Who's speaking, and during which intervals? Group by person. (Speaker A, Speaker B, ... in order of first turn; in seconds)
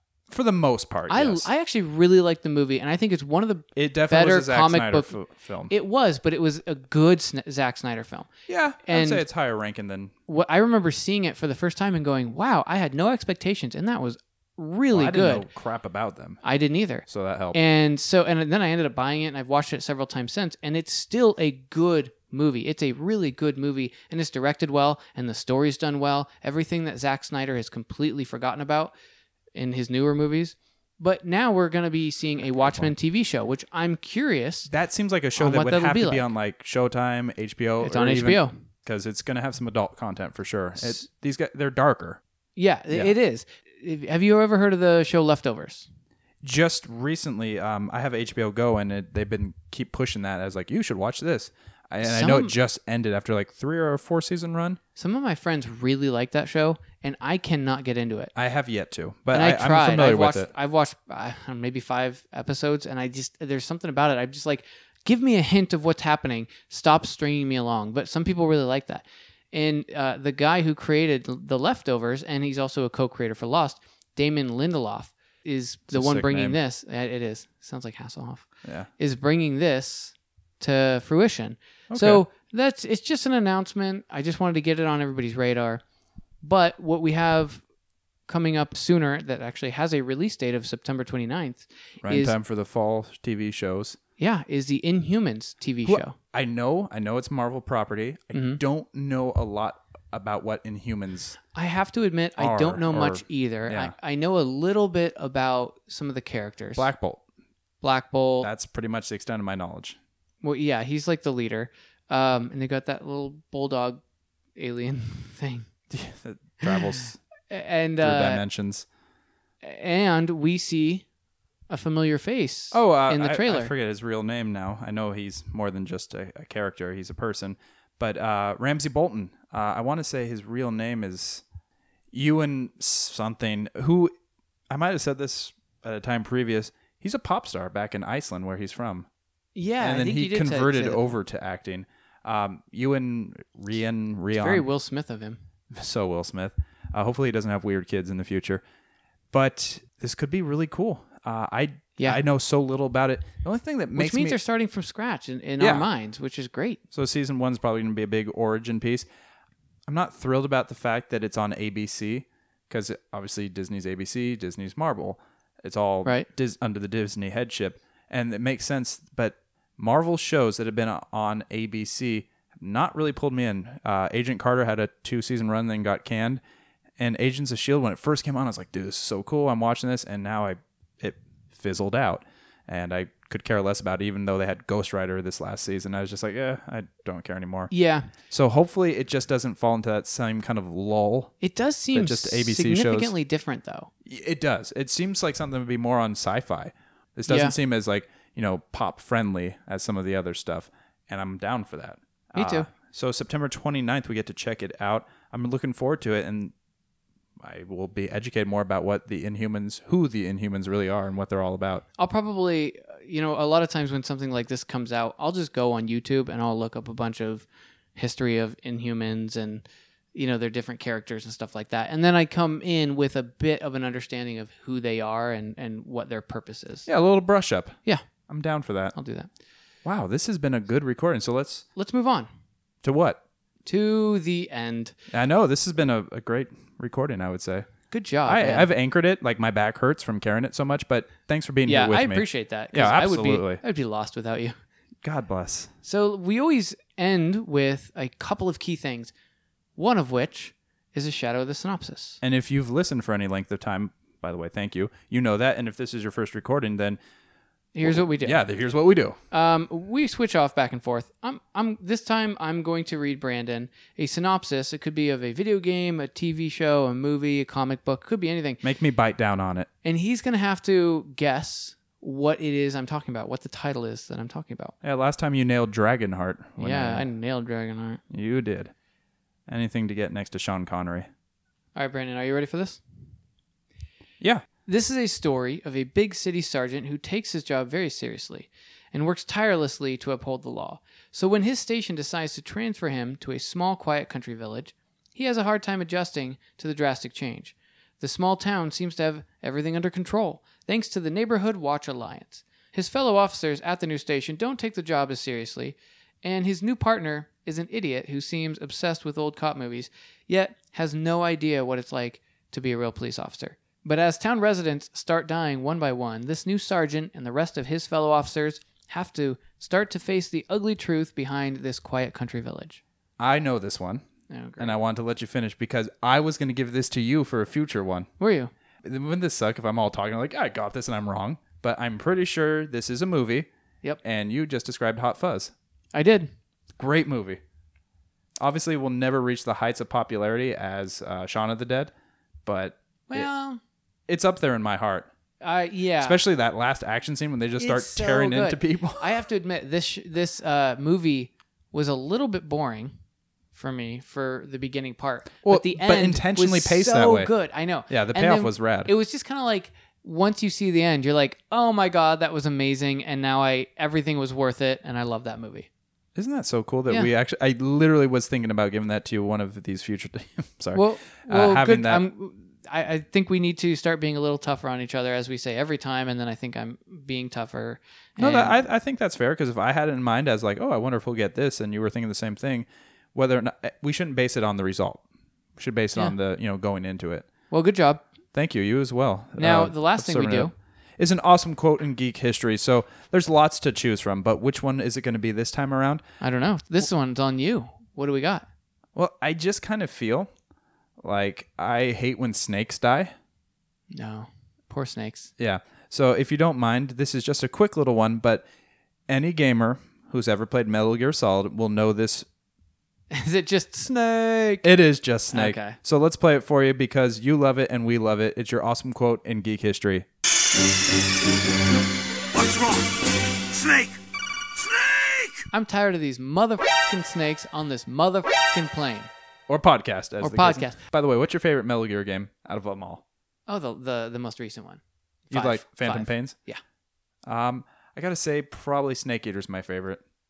Speaker A: 0.3-1.5, 3.8-5.7, 8.5-10.1, 14.9-16.4, 17.1-17.6, 32.6-32.9, 34.7-42.2, 46.4-54.8, 58.4-60.5, 75.9-76.6, 78.6-78.9, 81.9-82.2, 92.0-94.0, 95.9-101.4, 102.4-103.9, 106.8-107.2, 108.4-110.0, 115.9-117.2, 118.0-118.9, 122.7-131.4, 132.1-134.1, 134.7-139.1, 139.8-144.7, 145.7-148.6, 149.3-154.4, 155.6-155.9, 156.9-159.1, 159.9-176.4, 177.0-187.7, 188.3-191.3, 191.9-193.1, 194.1-206.5, 207.4-211.8, 226.9-228.9, 229.8-231.7, 232.8-233.2, 235.1-237.7, 238.3-243.6, 245.0-245.7, 252.2-257.0, 257.9-259.2, 268.6-269.7, 274.8-277.1, 278.1-278.7, 279.5-281.1, 323.2-324.1, 324.6-328.1, 328.8-333.5, 334.0-335.5, 336.8-337.4, 338.4-341.9, 342.4-343.3, 344.1-345.1, 346.0-349.1, 355.4-357.3, 357.9-358.9, 366.2-372.0, 378.2-385.0, 385.6-387.3, 388.3-396.0, 398.9-400.3, 401.0-403.1, 405.4-408.5, 409.1-412.3, 414.6-420.1, 422.3-422.9, 423.5-424.0, 424.6-425.4, 429.5-433.0, 435.3-436.4, 437.3-440.0
Speaker B: 1.1-5.1, 5.7-8.3, 8.9-9.2, 10.3-15.5, 16.4-28.9, 29.6-34.7, 35.4-36.3, 37.8-38.5, 42.6-45.9, 52.0-52.5, 55.0-58.3, 59.3-85.8, 86.4-87.6, 88.3-92.3, 94.2-96.2, 98.3-98.6, 101.5-106.9, 107.8-108.5, 110.4-114.0, 114.6-115.7, 116.6-118.4, 119.6-121.0, 121.7-123.7, 139.6-141.1, 144.3-145.4, 153.9-156.8, 187.7-188.1, 191.4-193.9, 197.3-197.6, 202.3-202.7, 212.0-219.6, 220.2-226.9, 228.9-229.3, 231.8-232.3, 233.7-234.9, 237.9-238.7, 241.7-244.6, 245.8-249.1, 249.8-252.2, 257.8-258.4, 259.3-268.6, 269.8-274.8, 276.6-278.0, 281.8-282.8, 284.7-322.8, 324.3-324.8, 328.2-328.5, 335.9-336.3, 343.1-343.6, 345.4-346.2, 347.6-352.9, 353.5-365.7, 370.7-378.6, 387.5-388.1, 389.4-390.5, 396.2-398.5, 403.9-405.3, 413.1-414.7, 415.3-415.8, 425.5-429.1, 430.2-430.8, 433.5-436.6